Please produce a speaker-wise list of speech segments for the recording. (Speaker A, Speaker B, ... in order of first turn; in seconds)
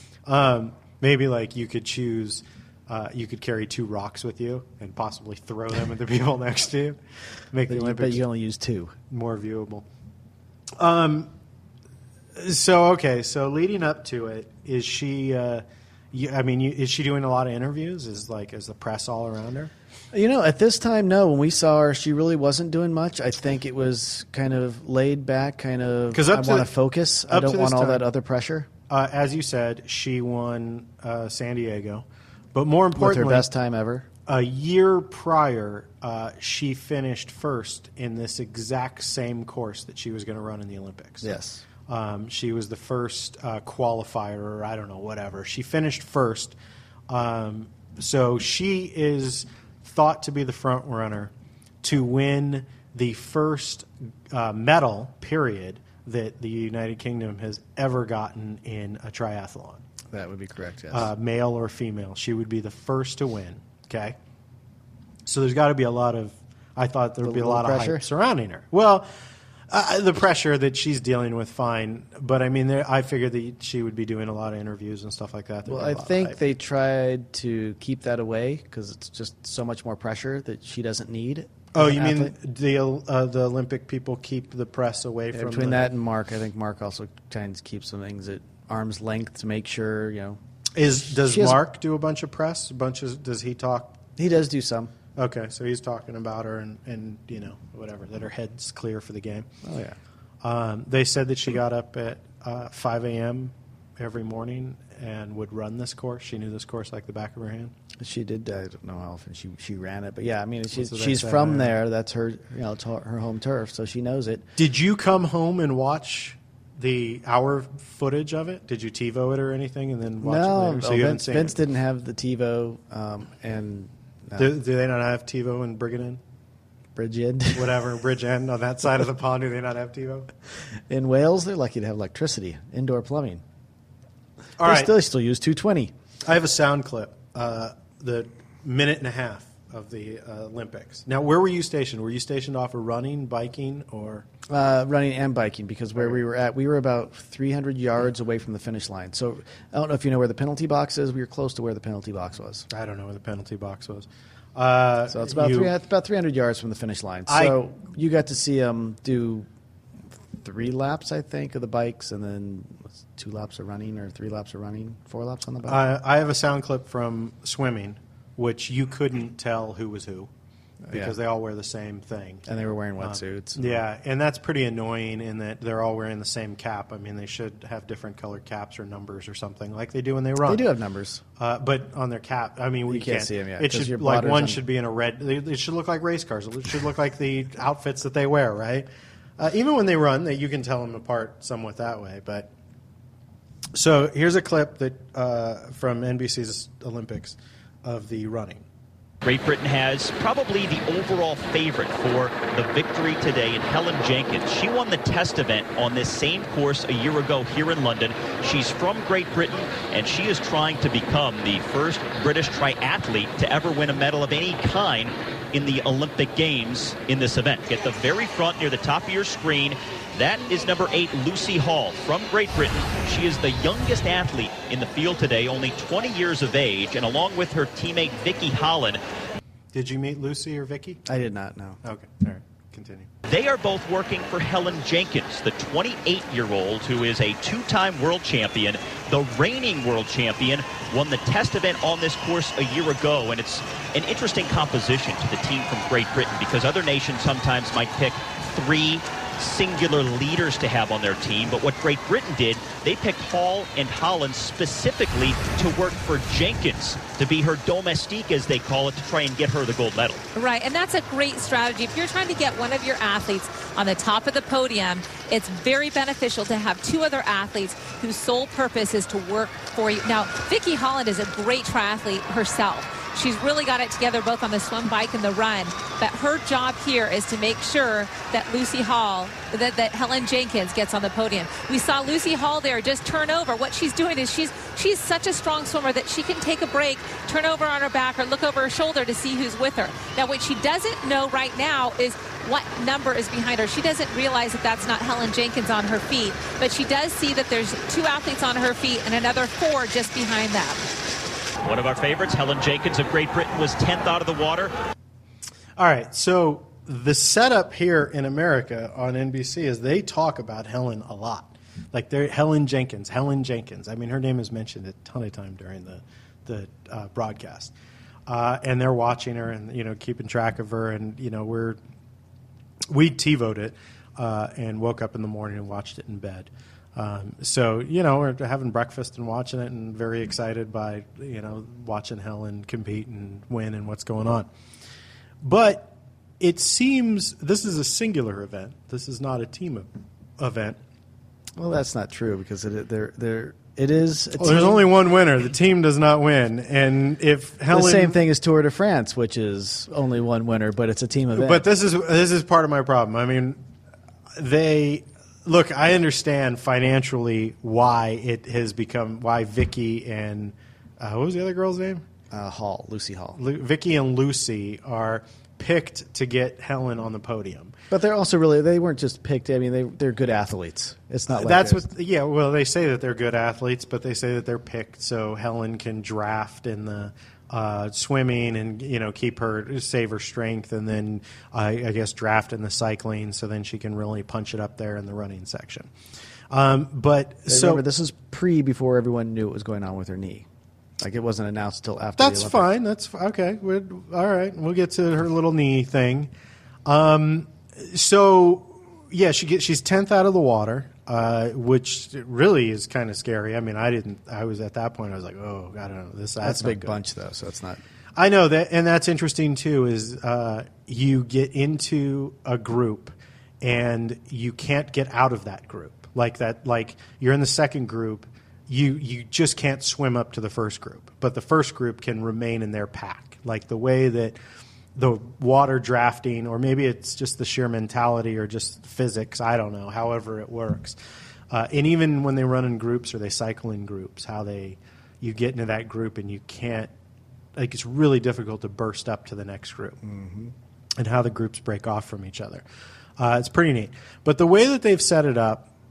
Speaker A: 0.2-7.0, 7.5-8.2, 9.1-9.8, 10.8-11.3, 12.3-19.7, 26.1-26.7, 27.3-28.1, 28.9-33.5, 34.3-41.3, 41.9-46.5, 47.1-51.3, 51.8-59.8, 60.9-64.2, 65.2-69.1, 69.7-76.4, 81.7-85.9, 90.7-94.0, 95.2-99.5, 100.4-107.7, 110.7-111.8, 114.6-121.5, 124.4-126.2, 127.5-130.3, 134.6-134.9, 136.2-144.3, 152.7-155.7, 157.3-157.6, 165.7-170.3, 170.9-172.5, 173.0-180.6, 181.4-188.9, 189.4-192.5, 193.7-198.6, 229.7-231.0, 231.8-233.1, 305.8-317.7, 318.3-321.8, 322.9-334.5, 335.4-340.8, 344.4-348.2, 351.3-353.6, 354.4-362.0, 363.3-367.7, 371.3-385.9, 386.5-387.8, 392.2-396.3, 396.9-407.0, 408.1-424.4, 424.9-431.0, 431.5-436.9, 437.6-440.0, 441.0-442.6, 443.2-445.7
Speaker B: 7.7-8.9, 20.1-28.7, 33.0-34.1, 41.2-41.6, 60.1-61.1, 67.2-68.0, 75.7-82.3, 85.3-90.4, 91.0-91.6, 94.2-94.9, 99.6-100.0, 108.0-114.5, 120.2-124.5, 127.0-127.8, 130.9-133.4, 134.6-135.9, 144.5-152.7, 155.1-159.5, 160.4-165.8, 170.9-171.1, 172.5-173.8, 180.4-181.2, 182.9-184.6, 231.1-231.8, 341.6-344.8, 347.7-351.6, 362.3-363.4, 367.9-371.9, 387.5-390.4, 391.0-392.6, 406.4-407.8, 440.0-440.5
Speaker C: 199.2-229.0, 233.2-260.2, 301.6-304.7
Speaker D: 260.3-300.9